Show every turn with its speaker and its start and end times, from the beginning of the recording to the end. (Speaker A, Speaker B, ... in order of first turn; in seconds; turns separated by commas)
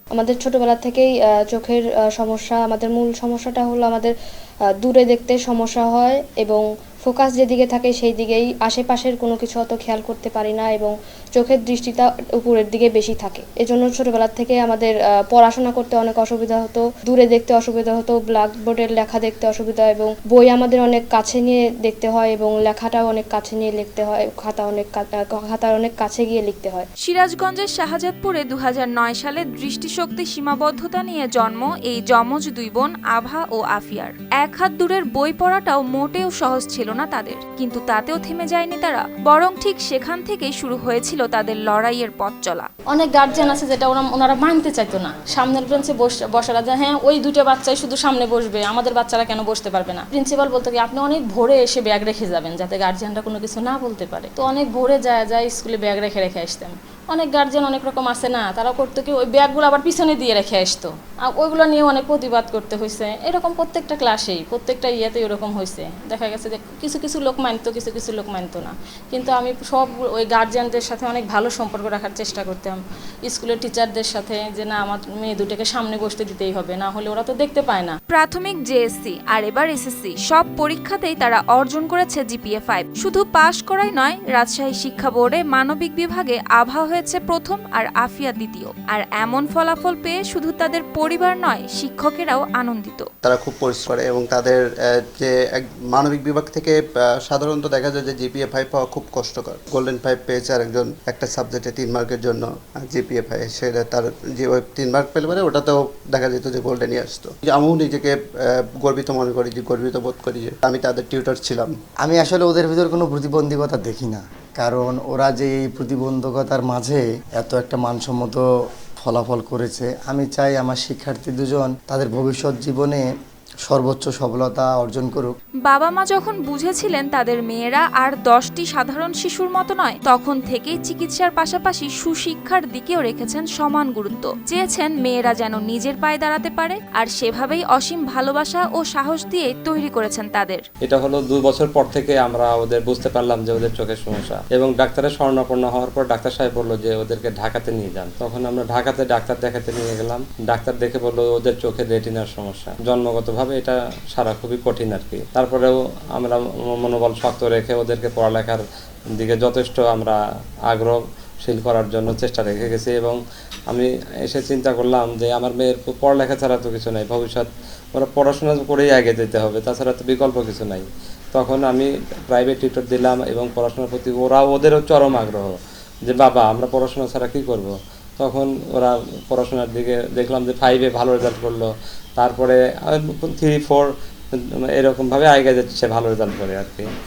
Speaker A: 0.1-4.1, Speaker A: 4.8-26.9, Speaker B: 27.0-42.7, Speaker C: 42.9-78.0, Speaker B: 78.1-93.1, Speaker D: 93.2-111.7, Speaker E: 112.0-118.4, Speaker E: 119.0-123.0, Speaker E: 123.7-125.4, Speaker B: 125.7-140.6, Speaker F: 140.8-158.6, Speaker F: 159.2-160.2, Speaker F: 160.7-163.2, Speaker F: 163.7-175.6, Speaker F: 176.1-186.9